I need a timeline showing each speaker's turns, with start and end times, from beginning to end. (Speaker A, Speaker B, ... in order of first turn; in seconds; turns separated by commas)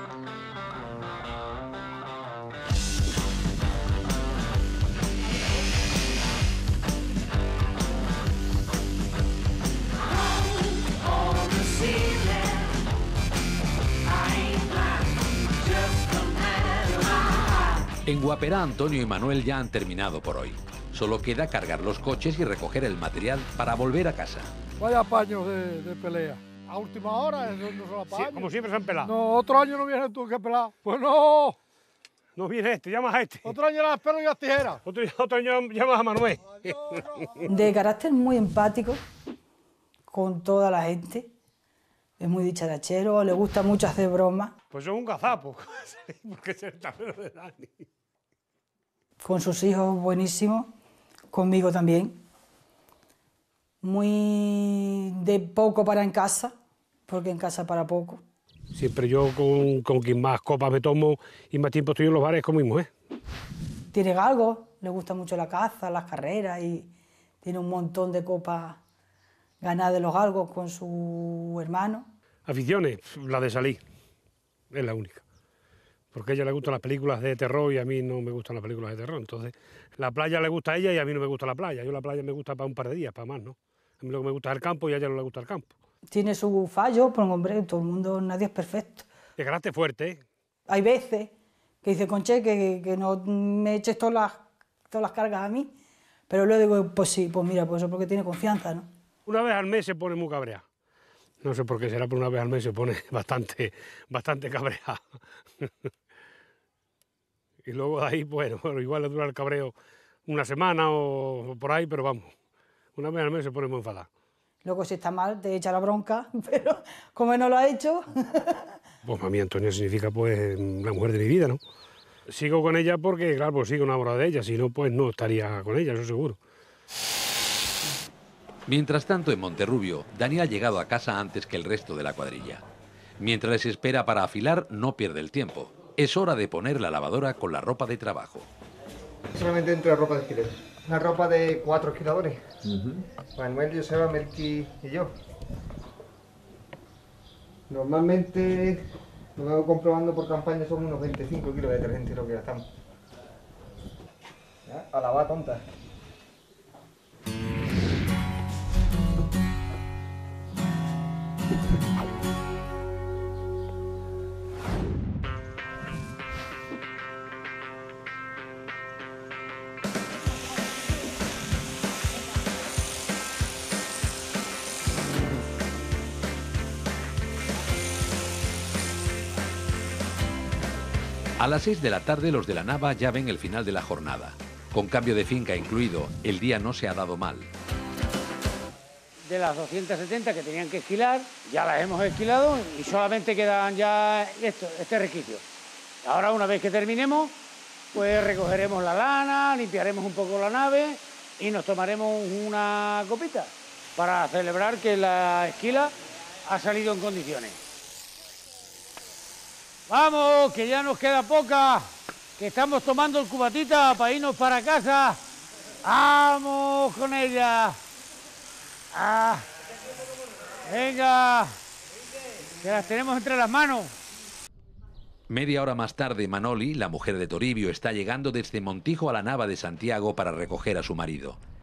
Speaker A: 18.1-24.5, Speaker B: 24.8-28.5, Speaker C: 28.3-29.1, Speaker B: 29.0-31.6, Speaker C: 32.4-33.5, Speaker B: 33.5-34.8, Speaker C: 34.9-37.0, Speaker B: 36.7-37.0, Speaker D: 37.5-39.0, Speaker D: 40.1-41.3, Speaker D: 42.2-44.5, Speaker C: 44.7-47.9, Speaker D: 49.2-50.7, Speaker D: 51.3-52.2, Speaker D: 53.8-56.5, Speaker D: 57.1-58.2, Speaker C: 58.7-62.9, Speaker D: 63.9-66.9, Speaker D: 67.4-68.8, Speaker D: 69.6-72.1, Speaker C: 72.5-73.8, Speaker C: 74.7-75.2, Speaker C: 76.1-85.8, Speaker D: 86.1-89.1, Speaker C: 89.4-90.2, Speaker D: 90.7-91.3, Speaker D: 91.8-95.7, Speaker D: 96.3-98.9, Speaker C: 99.3-100.6, Speaker C: 101.4-105.0, Speaker C: 107.6-109.7, Speaker C: 110.3-112.3, Speaker C: 113.0-114.1, Speaker D: 114.6-118.5, Speaker C: 119.0-121.6, Speaker C: 122.3-126.4, Speaker A: 128.7-132.6, Speaker A: 133.2-138.5, Speaker E: 139.3-142.5, Speaker E: 143.4-145.1, Speaker E: 147.7-152.6, Speaker E: 154.7-155.6, Speaker A: 181.4-187.5, Speaker F: 189.3-195.4, Speaker F: 196.0-197.3, Speaker F: 197.9-205.9, Speaker F: 206.4-207.6, Speaker F: 209.9-215.2, Speaker F: 215.9-217.8, Speaker F: 218.9-219.4, Speaker F: 220.7-221.6, Speaker F: 222.6-223.9, Speaker A: 225.3-231.4